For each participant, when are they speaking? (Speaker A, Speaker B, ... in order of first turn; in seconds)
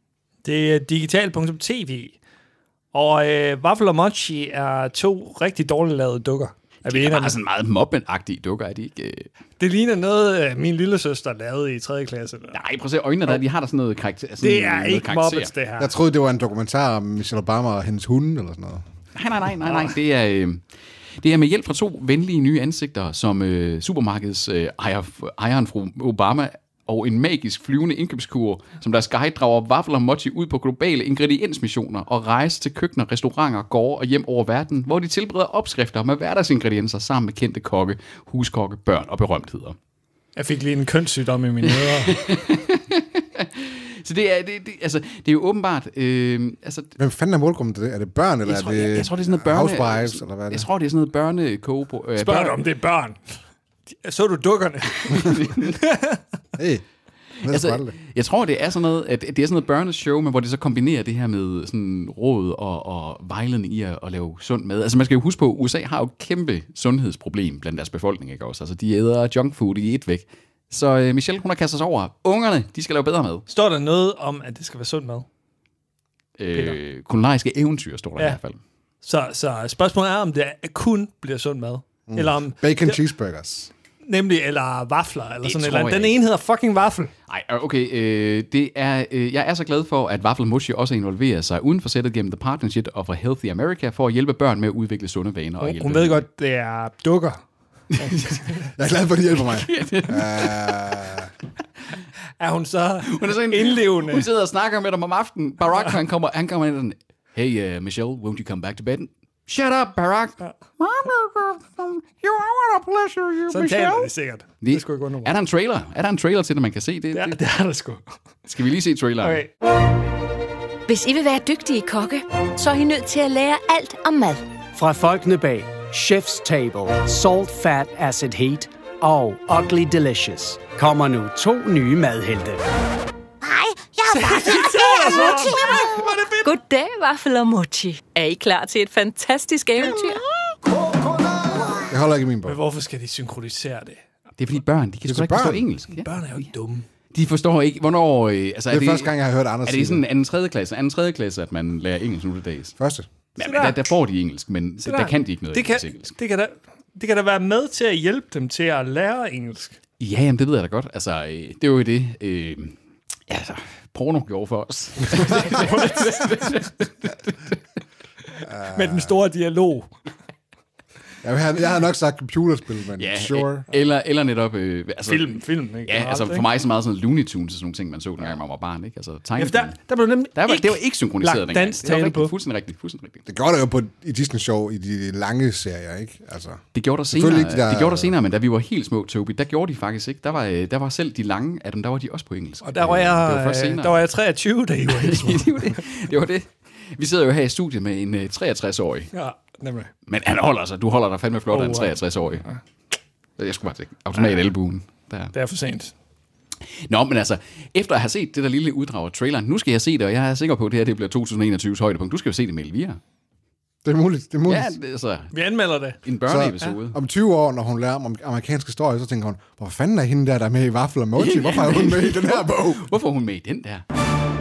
Speaker A: 0.4-2.2, 2.9-7.4, 9.6-12.6, 14.4-15.9, 40.4-42.2, 52.2-53.4, 53.9-56.2, 73.5-75.3, 79.0-83.0, 84.0-87.1, 95.6-97.4, 98.0-98.6, 102.4-104.3, 113.5-115.3, 117.1-118.1, 119.2-119.5, 134.0-136.4, 141.5-141.8, 142.4-144.0, 145.9-146.9, 153.4-153.8, 154.8-159.8, 165.4-166.2, 168.6-169.9, 175.1-176.5, 179.4-182.3, 192.6-195.8, 199.1-199.9, 201.5-202.6, 205.3-205.9, 215.3-216.0
Speaker B: 6.9-9.3, 12.5-15.5, 19.1-20.6, 21.2-39.8, 41.6-47.0, 48.4-52.6, 55.1-55.7, 57.5-73.5, 76.4-78.6, 85.4-86.2, 87.3-96.2, 97.9-98.4, 99.4-100.9, 103.0-114.1, 114.6-117.4, 118.5-119.4, 144.4-146.1, 147.1-152.8, 153.4-156.1, 160.0-162.8, 163.3-167.6, 173.0-179.8, 180.3-183.2, 186.7-194.1, 194.9-199.1, 200.1-202.4, 203.4-205.3, 206.8-213.0, 214.4-215.3, 216.0-217.0, 221.2-223.8
Speaker C: 15.8-18.8, 47.0-50.7, 56.6-56.8, 57.4-57.9, 82.1-83.7, 98.7-101.3, 141.9-142.6, 145.1-145.7, 148.7-150.0, 152.8-153.1, 168.4-169.1, 171.2-173.7, 183.3-188.1, 213.8-214.7, 216.2-222.9
Speaker D: 120.9-124.5, 135.3-140.2
Speaker E: 124.7-132.8, 133.6-134.2